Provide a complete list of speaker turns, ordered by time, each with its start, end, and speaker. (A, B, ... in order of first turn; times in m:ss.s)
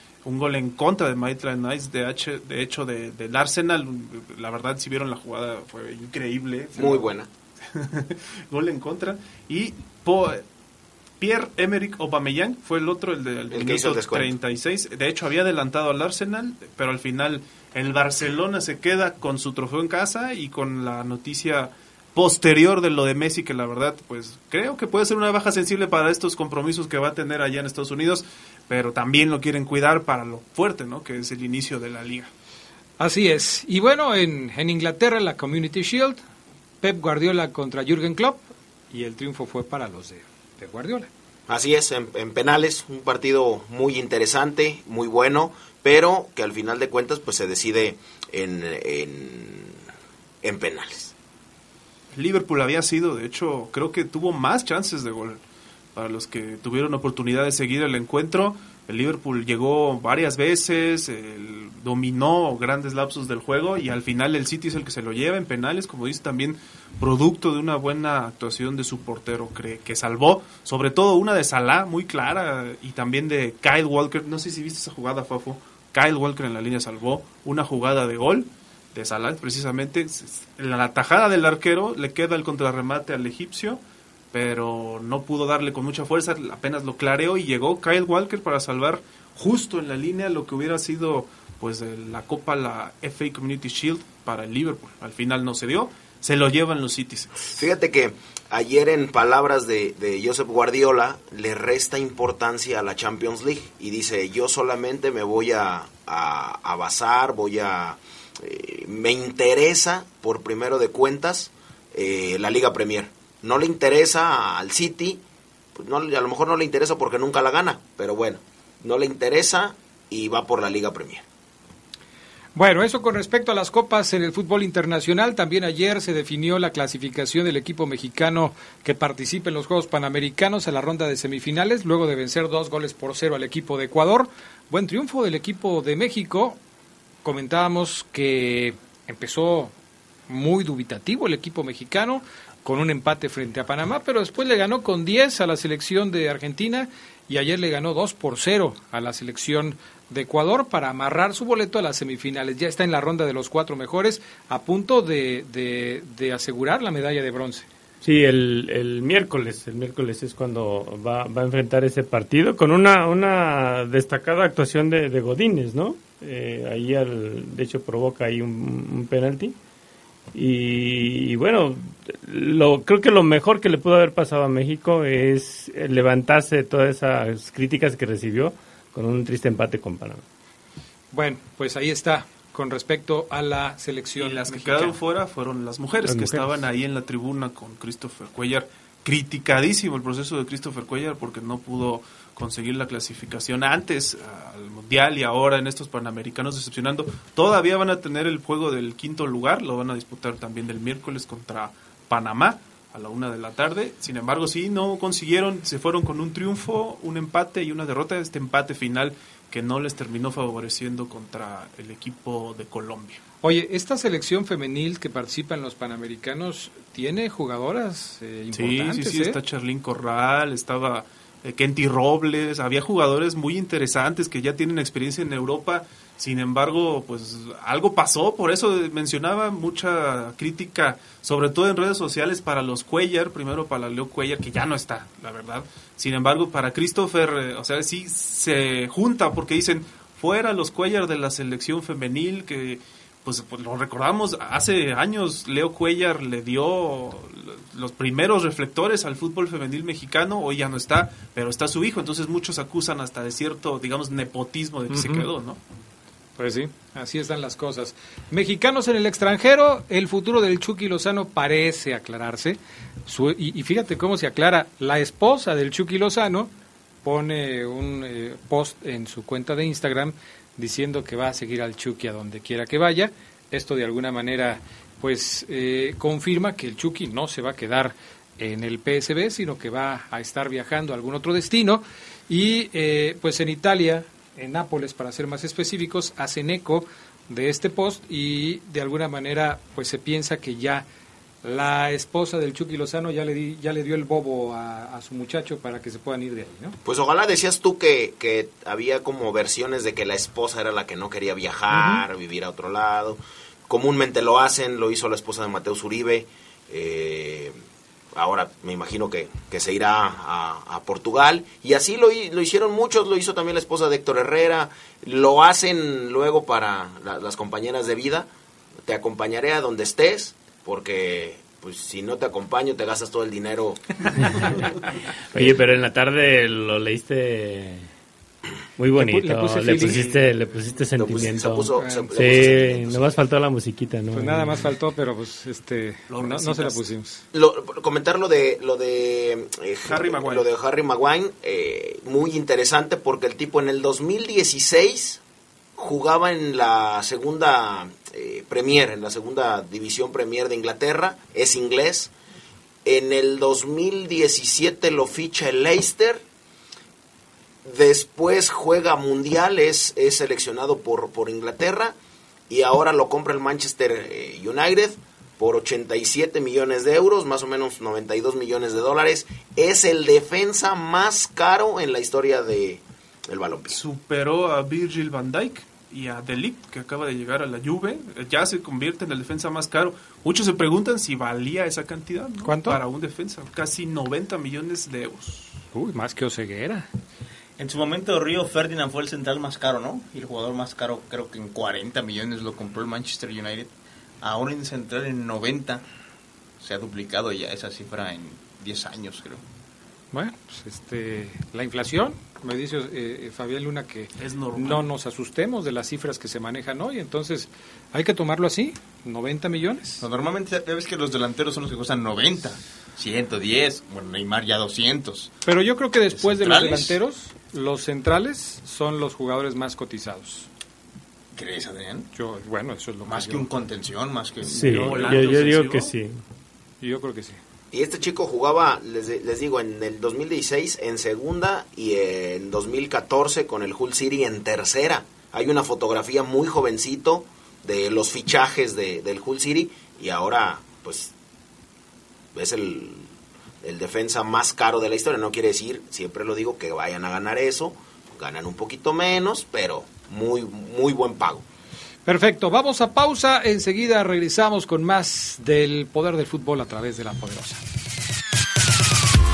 0:00.2-0:07.1 A
0:06.7-0:07.3 B
0:07.7-0:10.4 A
0:11.2-0:32.3 A
0:13.5-0:14.3 B
0:33.0-0:36.2 C
0:36.8-0:41.1 C
0:41.5-0:49.8 B
0:50.4-0:51.1 B
0:52.1-0:55.4 A
0:55.9-1:23.8 A
1:24.3-1:37.5 A
1:37.5-1:55.2 B
1:55.8-2:01.2 B
2:02.6-2:16.6 C
2:17.2-2:19.7 C
2:20.3-2:37.7 C
2:38.0-2:49.6 D
2:50.3-3:00.2 D
3:01.1-3:05.0 C
3:04.2-3:33.2 A
3:06.0-3:06.6 D
3:33.4-3:39.4 C
3:38.5-4:15.6 A
4:14.9-4:15.3 C
4:16.4-4:26.5 C
4:27.0-4:50.8 C
4:51.4-4:56.8 C
4:56.8-5:07.6 B
5:08.1-5:18.3 B
5:18.8-5:24.5 B
5:25.3-5:27.9 D
5:28.8-5:34.7 D
5:28.9-5:30.1 C
5:29.8-5:30.2 B
5:31.0-5:33.1 B
5:31.8-5:32.3 C
5:34.1-5:37.2 C
5:36.1-5:36.8 A
5:37.3-5:45.2 B
5:39.8-5:40.5 A
5:45.8-5:52.1 B
5:52.8-5:56.2 B
5:57.6-6:02.0 B
6:02.5-6:13.8 B
6:13.7-6:25.5 A
6:22.4-6:22.8 C
6:25.7-6:26.9 C
6:27.6-6:33.7 E
6:34.2-6:35.8 E
6:36.6-6:39.4 E
6:40.1-6:50.0 C
6:44.2-6:44.9 A
6:50.0-6:55.3 E
6:55.4-7:00.5 C
6:56.1-6:57.0 E
7:01.3-7:02.1 E
7:02.1-7:03.5 C
7:03.0-7:05.4 E
7:04.4-7:06.2 D
7:04.6-7:05.9 A
7:06.8-7:07.4 C
7:07.7-7:21.1 B
7:22.3-7:23.1 B
7:23.6-7:31.4 B
7:32.0-7:37.6 C